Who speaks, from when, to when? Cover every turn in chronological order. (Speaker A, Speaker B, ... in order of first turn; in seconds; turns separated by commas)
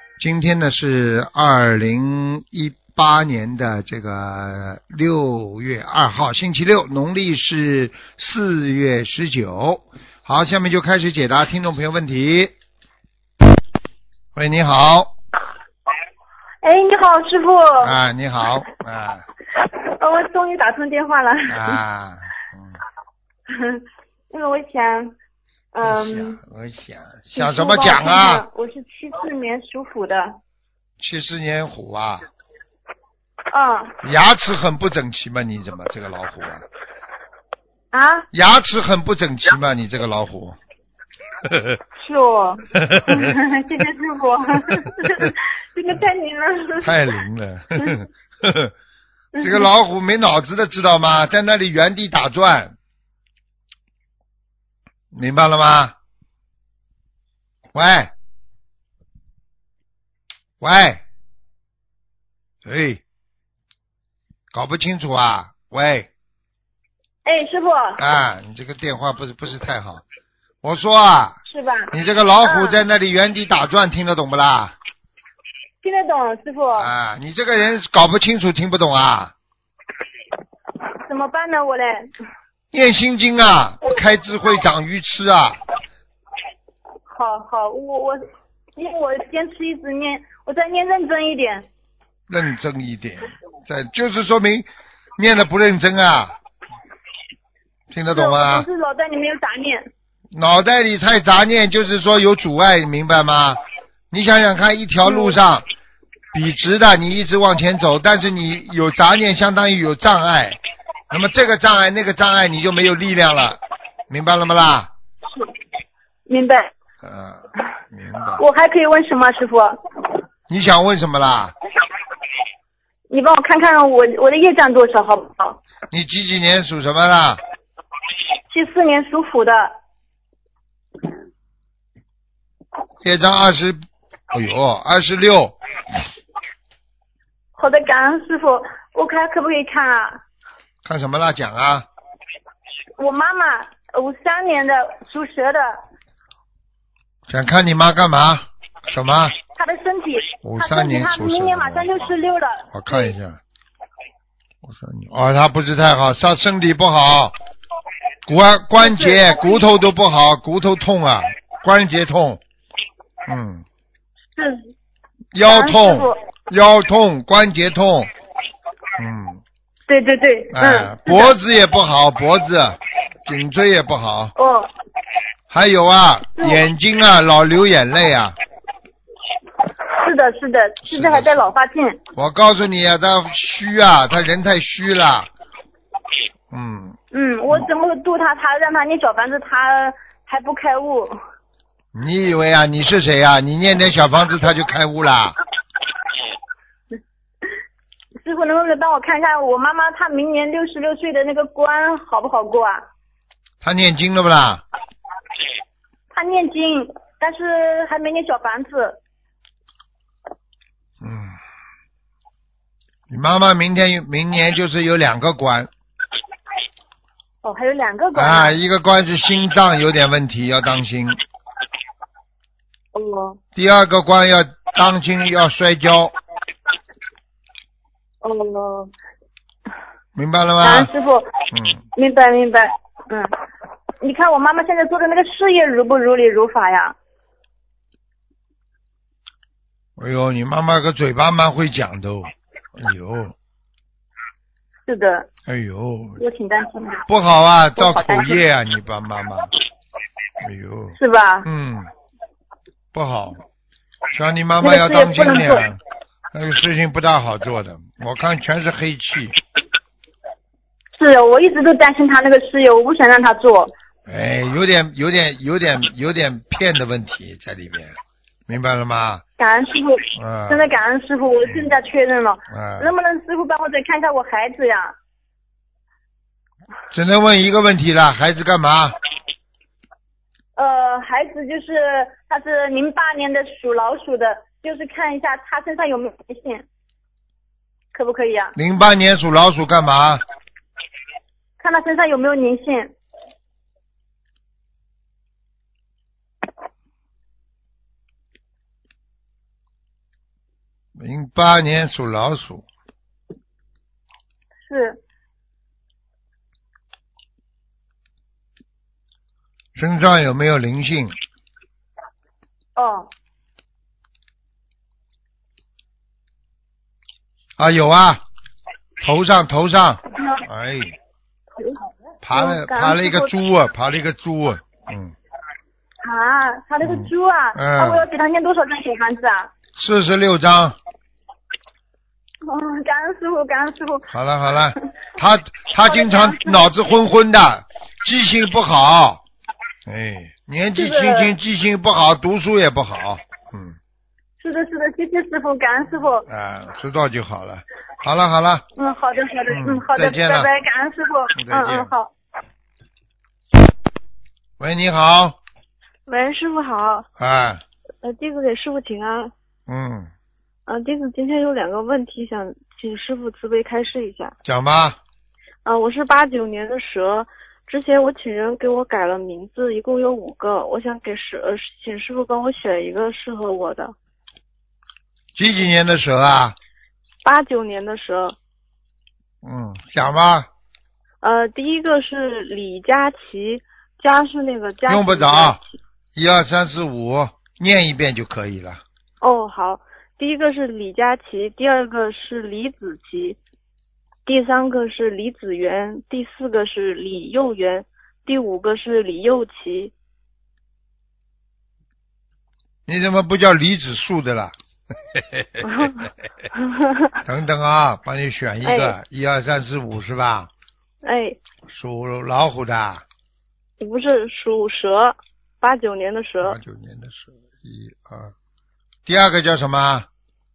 Speaker A: 0.2-12.5, Speaker A: 14.3-15.1, Speaker B: 16.6-17.9, Speaker A: 17.8-19.2, Speaker B: 19.6-21.8, Speaker A: 21.5-22.8, Speaker B: 23.5-25.2, Speaker B: 25.7-26.4, Speaker A: 25.8-28.5, Speaker B: 27.3-30.4, Speaker A: 31.0-32.3, Speaker B: 33.5-34.0, Speaker A: 34.0-36.6, Speaker B: 37.9-38.3, Speaker A: 38.3-40.6, Speaker A: 41.4-41.8, Speaker B: 42.0-46.9, Speaker A: 42.8-43.4, Speaker A: 45.0-45.3, Speaker A: 46.8-48.7, Speaker B: 49.4-49.7, Speaker A: 49.4-52.7, Speaker A: 55.1-56.0, Speaker A: 57.7-58.1, Speaker A: 60.6-61.0, Speaker A: 62.6-63.0, Speaker A: 64.5-66.1, Speaker B: 67.2-68.0, Speaker A: 68.0-70.0, Speaker A: 70.6-71.3, Speaker B: 71.5-72.8, Speaker A: 71.9-74.8, Speaker B: 75.8-76.9, Speaker A: 76.7-79.3, Speaker B: 81.0-82.1, Speaker A: 82.7-85.6, Speaker B: 87.1-91.7, Speaker A: 92.3-96.3, Speaker A: 97.9-98.7, Speaker B: 98.1-99.9, Speaker A: 100.3-103.6, Speaker A: 104.1-105.7, Speaker B: 105.0-105.4, Speaker A: 106.3-110.6, Speaker A: 111.1-114.9, Speaker B: 116.3-116.7, Speaker A: 117.0-118.4, Speaker B: 118.4-119.8, Speaker A: 120.5-121.5, Speaker B: 123.1-125.6, Speaker A: 125.9-127.4, Speaker B: 128.5-129.8, Speaker A: 133.0-135.6, Speaker B: 137.6-140.2, Speaker A: 140.8-141.9, Speaker B: 143.0-145.8, Speaker A: 147.3-149.3, Speaker B: 149.6-153.1, Speaker A: 150.4-152.0, Speaker A: 152.7-153.4, Speaker A: 154.6-157.3, Speaker A: 158.3-162.4, Speaker B: 158.8-159.6, Speaker A: 163.3-163.6, Speaker B: 164.4-164.7, Speaker A: 165.3-168.1, Speaker B: 165.4-166.2, Speaker A: 169.0-169.4, Speaker B: 169.9-171.4, Speaker A: 170.5-174.3, Speaker B: 174.4-174.7, Speaker A: 175.5-178.4, Speaker B: 179.9-182.0, Speaker A: 180.8-181.5, Speaker A: 182.2-185.3, Speaker A: 186.5-187.0, Speaker B: 187.1-191.2, Speaker A: 191.9-195.4, Speaker B: 198.2-202.9, Speaker A: 203.6-204.6, Speaker B: 206.1-209.0, Speaker A: 211.0-211.4, Speaker A: 213.1-215.7, Speaker B: 217.4-218.6, Speaker A: 218.1-221.2, Speaker B: 222.9-223.4, Speaker A: 223.6-226.1, Speaker B: 228.2-228.9, Speaker A: 230.2-230.9, Speaker B: 230.6-231.3, Speaker A: 231.5-231.8, Speaker B: 231.9-233.3, Speaker B: 234.0-237.0, Speaker A: 240.0-243.3, Speaker B: 244.9-245.3, Speaker A: 245.5-246.2, Speaker B: 246.2-247.0, Speaker A: 247.1-249.5, Speaker B: 247.8-248.4, Speaker A: 250.4-251.9, Speaker B: 251.0-251.5, Speaker A: 252.9-253.4, Speaker A: 254.1-255.8, Speaker B: 254.6-255.7, Speaker A: 256.3-259.4, Speaker B: 261.0-263.7, Speaker A: 264.1-269.2, Speaker B: 269.4-275.0, Speaker A: 270.2-270.7, Speaker A: 272.5-272.9, Speaker A: 276.9-278.9, Speaker B: 280.6-286.7, Speaker B: 287.9-288.6, Speaker A: 288.6-290.2, Speaker B: 291.6-292.9, Speaker A: 301.0-302.6, Speaker B: 304.6-305.0, Speaker A: 309.8-311.1, Speaker B: 312.8-313.1, Speaker A: 317.6-318.2, Speaker A: 319.0-320.9, Speaker B: 321.6-323.3, Speaker A: 322.2-325.1, Speaker B: 326.0-329.5, Speaker A: 326.8-328.1, Speaker A: 329.8-330.8, Speaker B: 332.4-334.1, Speaker A: 334.1-339.2, Speaker B: 335.9-336.6, Speaker A: 339.9-343.8, Speaker B: 340.8-341.4, Speaker B: 344.4-346.3, Speaker A: 346.3-348.6, Speaker B: 348.8-352.1, Speaker A: 349.5-350.5, Speaker A: 351.4-351.9, Speaker A: 354.6-355.4, Speaker C: 356.1-357.1, Speaker A: 357.2-357.6, Speaker C: 358.0-359.3, Speaker A: 359.7-360.1, Speaker C: 360.7-364.4, Speaker A: 364.4-365.0, Speaker C: 365.6-373.9, Speaker A: 375.4-376.6, Speaker C: 377.2-378.4, Speaker A: 379.4-380.5, Speaker C: 381.2-385.6, Speaker A: 384.9-385.6, Speaker A: 386.2-388.8, Speaker C: 389.2-393.4, Speaker C: 394.3-399.9, Speaker A: 402.9-405.9, Speaker C: 405.6-407.2, Speaker A: 407.2-410.5, Speaker C: 408.6-408.9, Speaker C: 411.0-411.4, Speaker A: 411.7-413.0, Speaker C: 413.8-416.6, Speaker A: 416.4-418.3, Speaker A: 419.1-420.1